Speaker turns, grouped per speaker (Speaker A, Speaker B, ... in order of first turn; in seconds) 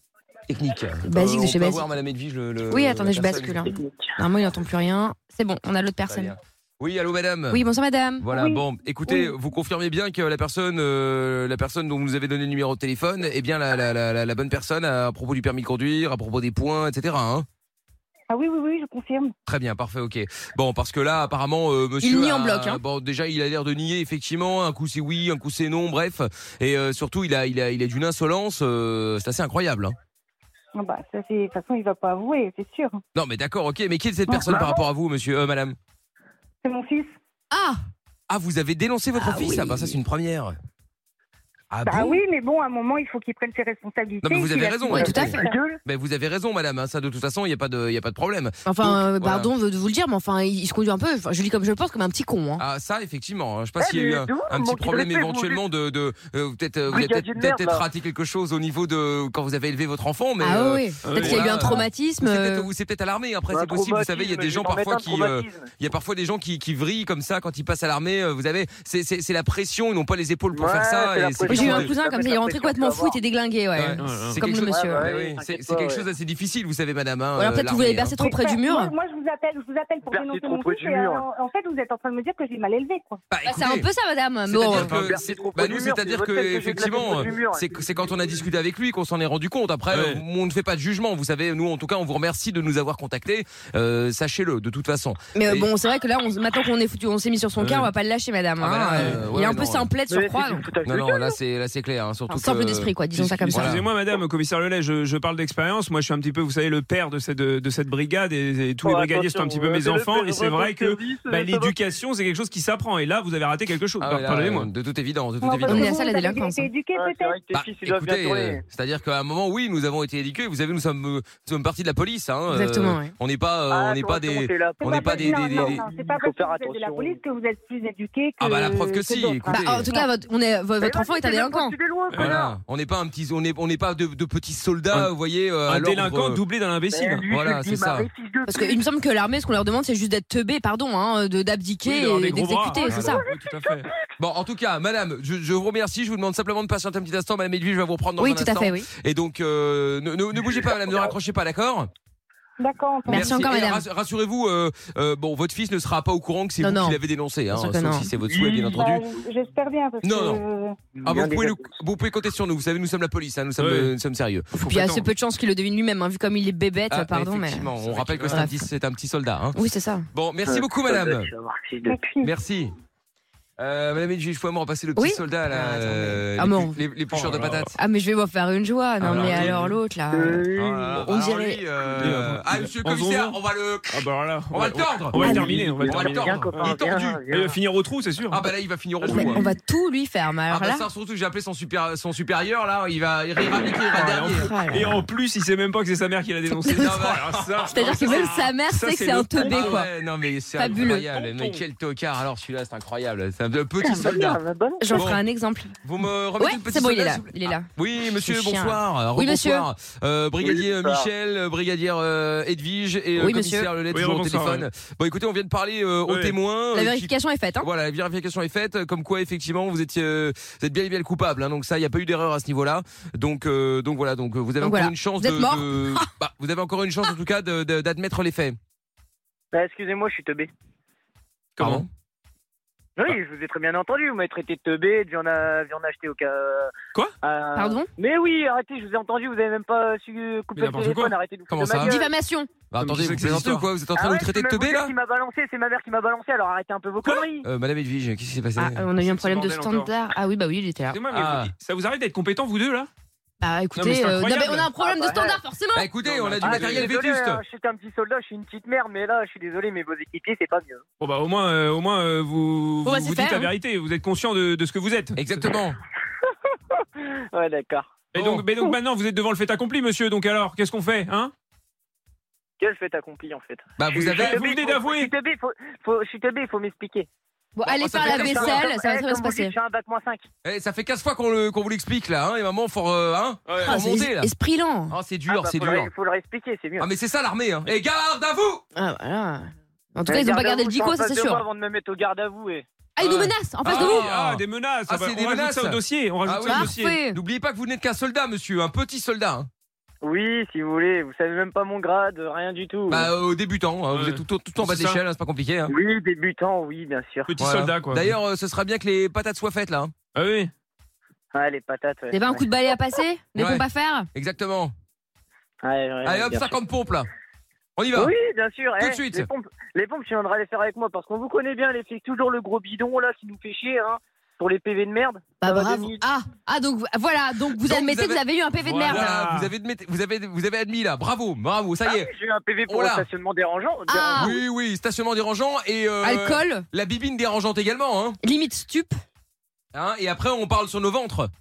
Speaker A: 0.5-3.7, 6.1-7.6, 8.2-17.5, 19.5-29.9, 33.1-35.8, 38.3-40.6, 41.7-42.2, 44.2-49.5, 52.6-71.9, 73.8-78.2, 83.3-83.9, 84.5-95.7, 98.6-99.9, 100.8-103.0, 103.5-103.9, 114.0-115.9, 117.5-125.8, 128.4-129.9, 132.2-136.4, 137.3-138.1, 144.2-151.9, 153.1-159.0, 160.0-160.4, 161.1-164.5, 166.9-169.6, 170.1-171.3, 172.2-172.7, 173.6-177.7, 179.0-179.7, 180.6-187.2, 188.3-189.5, 190.5-194.5, 196.7-198.3, 199.4-204.4, 204.9-205.2, 205.8-228.6, 231.6-231.9, 241.5-242.0, 242.7-244.9, 247.4-248.9, 251.1-251.5, 255.8-257.4, 265.2-265.8, 268.1-268.4, 273.8-274.4, 277.7-278.6, 280.4-284.3, 284.9-285.9, 286.8-288.6, 293.6-299.5, 302.9-305.7, 307.4-309.9, 313.4-314.7, 316.1-317.1, 317.8-318.1, 318.8-319.3, 327.6-328.2, 328.8-332.1, 332.7-333.1, 334.1-338.2, 339.7-341.3
Speaker B: 1.1-1.9, 2.7-6.3, 7.5-8.3, 22.0-22.8, 37.5-37.8, 39.2-39.9, 44.9-45.5, 48.7-52.6, 60.4-62.7, 71.5-75.1, 77.4-79.0, 83.5-84.9, 95.3-100.7, 102.3-103.8, 115.7-116.7, 122.5-123.1, 129.5-131.8, 138.5-143.2, 148.2-148.9, 153.1-153.8, 156.6-157.0, 157.5-158.1, 164.5-167.7, 168.2-168.6, 169.6-170.1, 175.0-176.8, 177.8-180.4, 181.0-181.6, 185.2-185.6, 189.1-190.8, 193.8-195.1, 196.6-196.9, 197.7-199.9, 200.6-201.1, 204.8-205.8, 206.4-209.7, 213.2-213.7, 216.7-217.7, 224.6-226.1, 237.6-237.9, 241.8-242.6, 248.6-251.0, 253.4-255.9, 262.8-263.5, 277.6-279.5, 283.6-284.9, 288.8-291.4, 293.0-294.1, 296.4-297.2, 312.1-314.1, 325.4-329.2, 333.9-334.4, 336.0-336.6, 338.2-339.0
Speaker C: 3.6-4.2, 45.0-45.8, 53.8-55.6, 56.9-57.9, 63.5-65.7, 70.5-73.2, 74.5-76.1, 80.1-81.3, 84.6-87.7, 100.1-101.4, 108.8-111.8, 116.9-118.6, 123.7-127.2, 130.8-132.6, 136.9-138.8, 158.2-159.2, 160.9-161.7, 170.5-172.0, 179.3-179.6, 180.1-181.0, 185.3-187.6, 189.1-189.4, 203.8-205.2, 210.4-211.1, 229.5-230.5, 233.0-236.7, 237.2-242.1, 243.9-247.5, 254.8-255.4, 256.4-260.8, 266.8-267.9, 272.6-277.1, 277.8-280.2, 285.3-286.9, 290.1-292.7, 300.0-303.1, 305.7-307.3, 311.3-312.5, 315.6-316.6, 317.9-326.0, 331.9-334.4
Speaker D: 8.3-9.3, 18.3-19.3, 30.8-33.0, 34.3-34.8, 36.6-37.1, 41.9-45.6, 78.2-83.2, 115.4-117.4, 124.7-130.2, 152.6-153.4, 158.5-160.9, 171.8-172.3
Speaker E: 61.0-61.6, 74.0-74.4, 89.9-90.2, 97.6-97.9, 98.7-99.2, 103.1-114.7, 132.1-132.4, 135.7-137.3, 141.8-143.9, 163.6-163.9, 164.6-165.1, 167.8-168.4, 177.1-177.7, 179.0-179.8, 182.0-188.4, 193.9-199.8, 200.7-201.6, 213.9-214.7, 216.1-216.4, 231.6-231.8, 240.6-241.1, 242.8-243.7, 249.0-249.9, 250.9-252.9, 253.8-254.7, 256.0-256.9, 261.0-265.5, 268.1-271.3, 274.1-275.1, 283.5-283.8, 293.0-297.0, 303.9-305.0, 307.3-308.1, 310.1-310.5, 328.6-329.5